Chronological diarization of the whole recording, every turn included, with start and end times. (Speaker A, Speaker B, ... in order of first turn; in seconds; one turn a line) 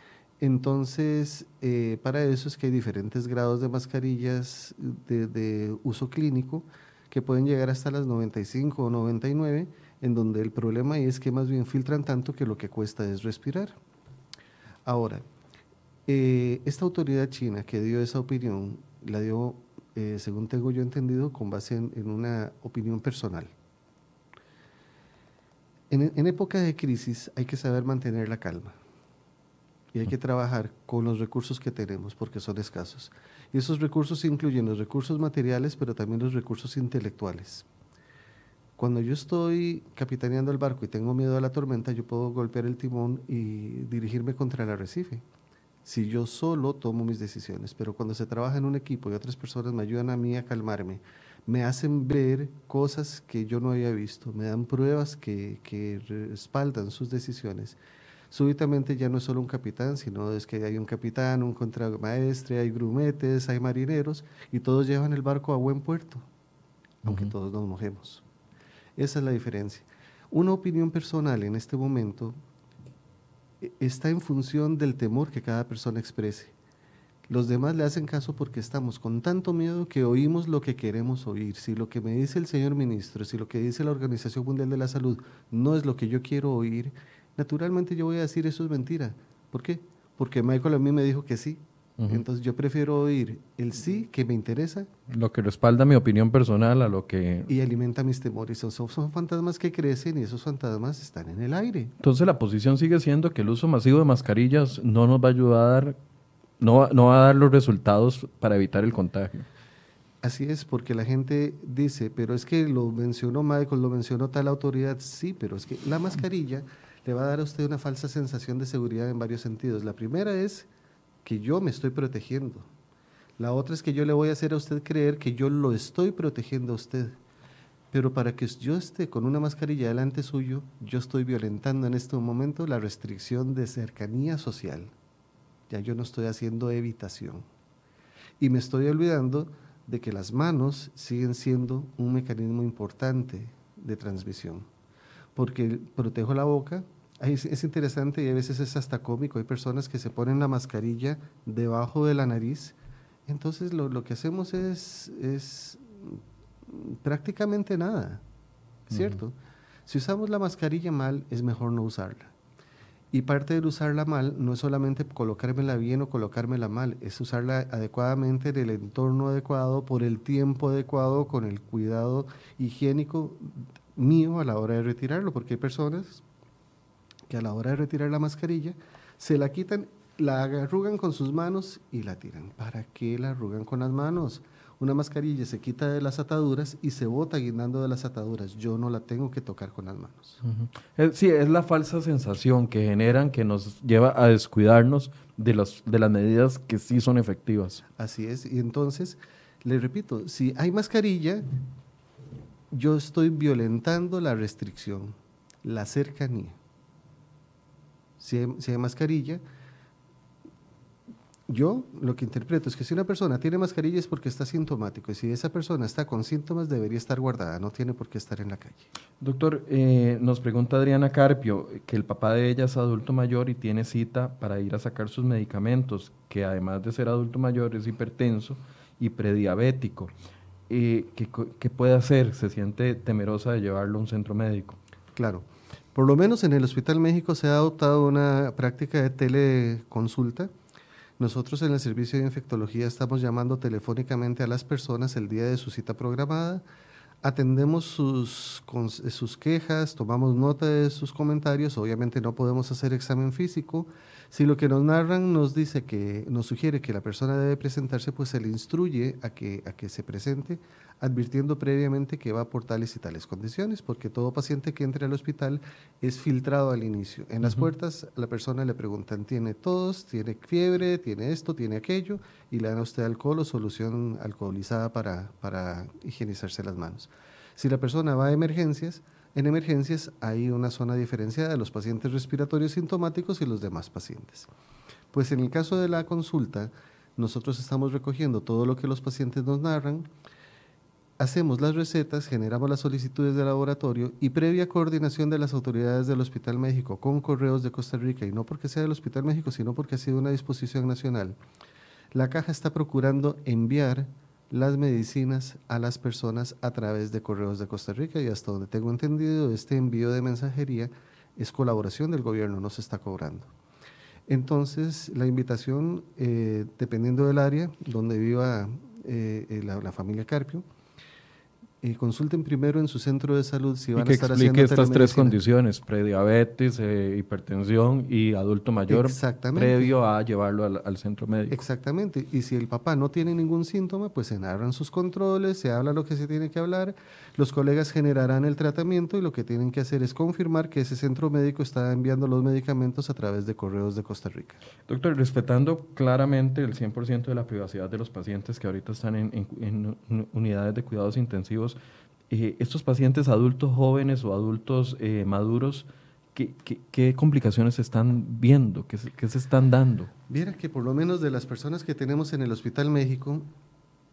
Speaker A: 0.4-13.8
Speaker A: 14.9-15.2
Speaker A: 16.1-23.5
Speaker A: 25.9-28.8
Speaker A: 29.9-37.6
Speaker A: 38.8-45.2
Speaker A: 45.8-57.8
Speaker A: 58.3-66.2
Speaker B: 67.0-67.3
Speaker A: 67.0-68.2
Speaker A: 69.0-72.4
Speaker A: 73.6-76.5
Speaker A: 77.3-94.9
Speaker B: 92.0-92.2
Speaker B: 95.1-97.5
Speaker A: 97.5-101.9
Speaker B: 102.0-106.0
Speaker B: 106.6-109.5
Speaker A: 110.2-120.7
Speaker A: 121.2-122.7
Speaker A: 123.4-127.2
Speaker A: 127.9-134.9
Speaker A: 135.7-137.4
Speaker A: 138.4-144.7
Speaker A: 145.3-152.8
Speaker A: 153.3-158.2
Speaker A: 158.9-162.3
Speaker B: 158.9-159.2
Speaker A: 163.1-176.2
Speaker A: 177.3-190.4
Speaker B: 190.4-197.8
Speaker A: 198.0-201.5
Speaker A: 202.7-206.6
Speaker A: 208.2-209.4
Speaker A: 211.5-218.9
Speaker B: 219.2-230.1
Speaker B: 230.7-234.8
Speaker A: 235.2-240.5
Speaker A: 241.2-246.6
Speaker A: 247.2-284.5
Speaker B: 267.4-267.7
Speaker A: 285.1-290.1
Speaker A: 291.2-301.4
Speaker A: 302.1-313.5
Speaker A: 314.3-320.7
Speaker A: 321.8-325.4
Speaker B: 323.9-331.6
Speaker A: 328.9-329.9
Speaker A: 331.5-344.6
Speaker B: 344.9-351.8
Speaker B: 352.3-360.1
Speaker A: 360.3-363.5